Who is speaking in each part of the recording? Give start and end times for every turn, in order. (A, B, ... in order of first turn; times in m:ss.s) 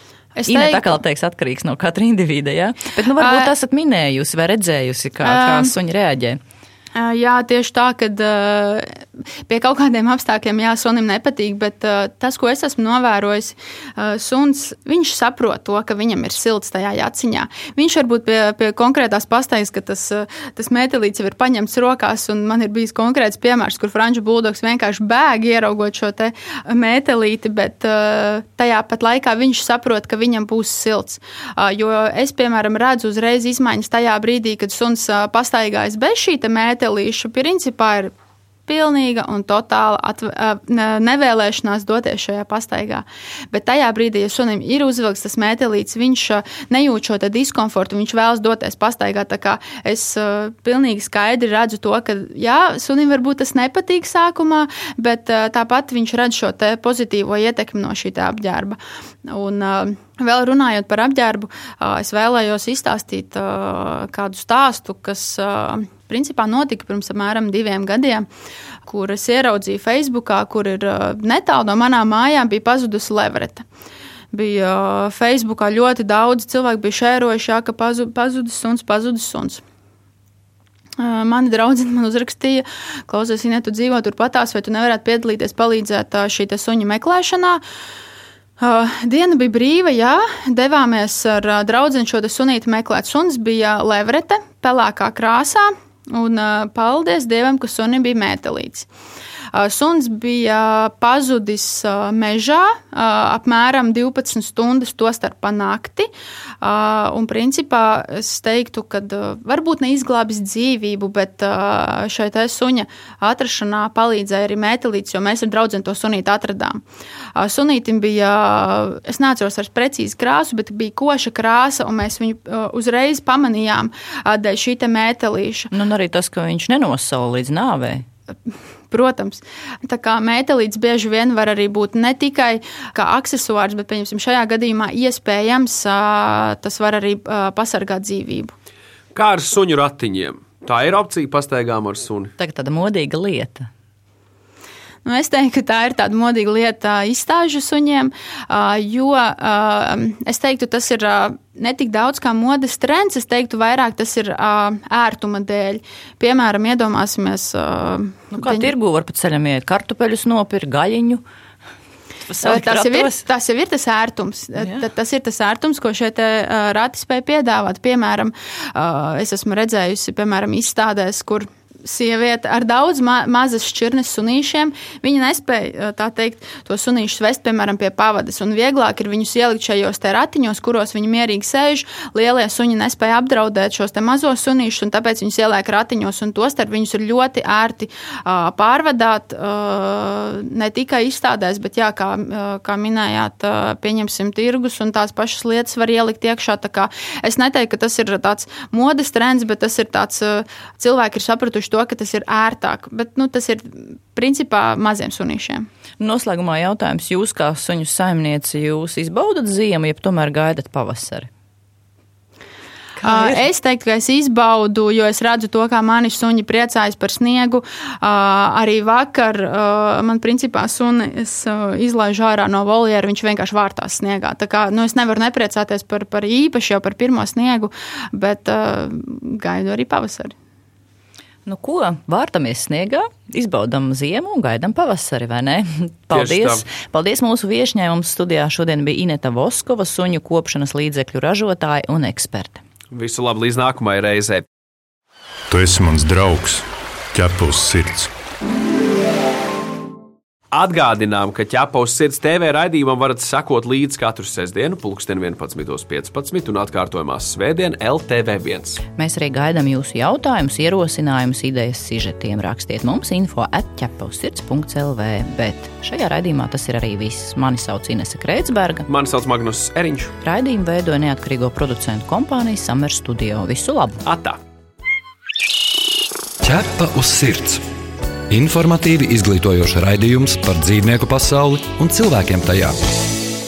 0:00.4-0:01.0 A
0:00.5-0:06.4 B
0:03.2-0:03.5 A
0:05.2-0:05.7 A
0:07.0-0:08.9 A
0:09.5-0:38.1 A
0:38.7-1:08.3 A
1:08.9-1:13.6 A
1:14.3-1:19.6 A
1:21.0-1:27.6 A
1:28.6-1:38.9 A
1:39.5-1:46.1 A
1:46.6-1:56.8 A
1:57.4-2:05.7 A
2:05.7-2:08.1 B
2:08.9-2:18.5 A
2:19.2-2:22.3 C
2:22.4-2:23.7 B
2:25.0-2:38.7 A
2:38.3-2:41.2 B
2:42.3-2:43.2 B
2:42.4-3:25.7 A
2:44.6-2:44.8 B
3:26.0-3:31.3 B
3:33.0-3:33.4 B
3:33.0-3:50.3 A
3:51.5-4:02.6 B
3:56.1-3:56.7 C
4:02.9-4:04.4 C
4:05.5-4:08.1 D
4:10.5-4:18.8 C
4:19.0-4:28.9 B
4:28.9-4:30.1 C
4:30.2-4:34.0 B
4:34.0-4:34.4 C
4:36.4-4:37.6 E
4:38.3-4:42.8 E